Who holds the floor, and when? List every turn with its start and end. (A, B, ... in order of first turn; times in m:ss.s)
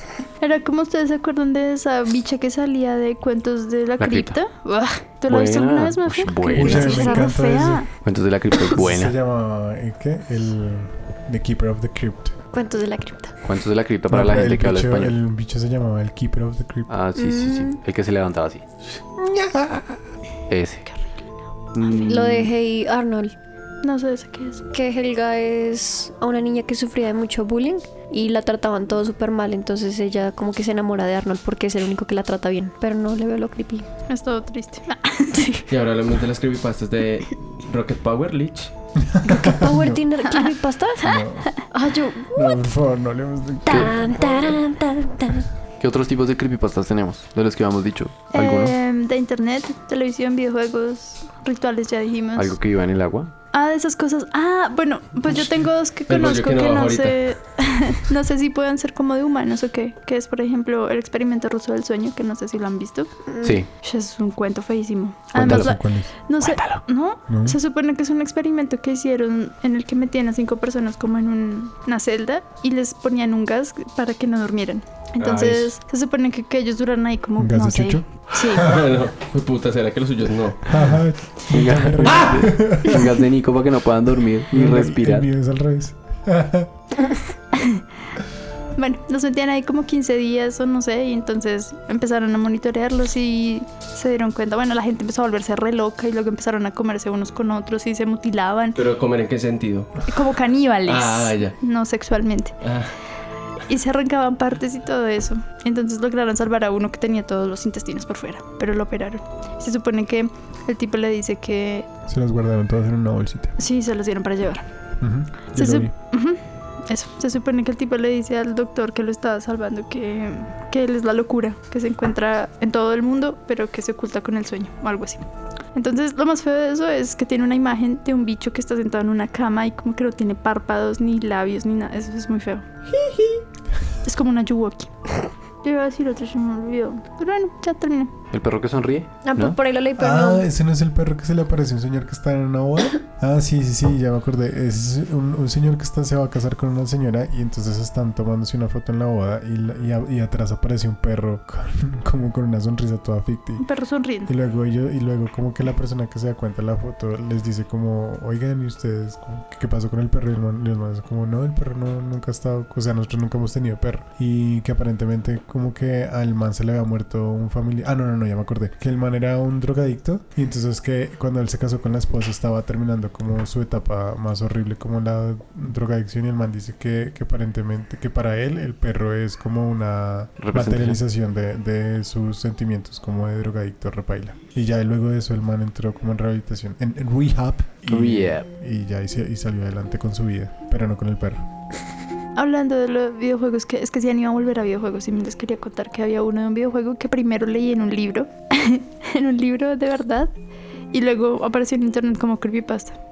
0:00.4-0:07.9 A
0:04.0-0:04.4 B
0:05.3-0:07.0 B
0:06.5-0:07.8 C
0:06.6-0:07.3 D
0:08.0-0:09.2 B
0:08.6-0:12.3 C
0:12.5-0:13.3 D
0:13.4-0:15.2 B
0:14.1-0:16.9 C
0:16.9-0:18.7 B
0:17.2-0:17.8 D
0:20.5-0:20.8 B
0:20.9-0:21.2 A
0:21.7-0:22.5 B
0:21.8-0:23.3 D
0:23.8-0:24.6 A
0:24.7-0:33.9 D
0:34.1-0:35.6 A
0:35.7-0:38.7 E
0:39.0-0:40.0 C
0:39.3-0:41.1 D
0:40.2-0:40.5 A
0:41.0-0:41.7 C
0:41.7-0:42.6 D
0:42.3-0:44.5 C
0:43.7-0:45.4 D
0:45.8-0:48.7 B
0:48.3-0:52.6 A
0:52.3-0:53.3 B
0:53.5-1:03.1 A
0:56.1-0:57.3 E
1:03.3-1:03.6 D
1:03.4-1:03.7 B
1:03.8-1:18.6 A
1:05.3-1:06.1 C
1:05.4-1:05.8 B
1:06.4-1:06.8 B
1:07.3-1:07.6 C
1:15.2-1:15.7 E
1:17.4-1:18.8 C
1:18.5-1:20.9 E
1:20.7-1:23.1 C
1:21.5-1:25.3 B
1:24.5-1:26.7 C
1:27.5-1:27.8 A
1:28.8-1:38.8 A
1:38.8-1:40.1 E
1:40.1-1:42.6 A
1:40.9-1:41.6 E
1:42.6-1:42.9 E
1:43.7-1:51.8 A
1:52.1-1:53.6 C
1:53.6-1:54.7 A
1:55.0-1:55.9 C
1:55.5-2:12.7 A
2:14.0-2:15.0 A
2:15.6-2:18.1 A
2:18.3-2:19.6 B
2:19.2-2:20.5 D
2:20.0-2:33.7 C
2:33.6-2:34.3 A
2:34.3-3:11.4 C
3:00.4-3:01.0 B
3:07.9-3:08.5 B
3:12.4-3:20.3 A
3:20.9-3:22.9 A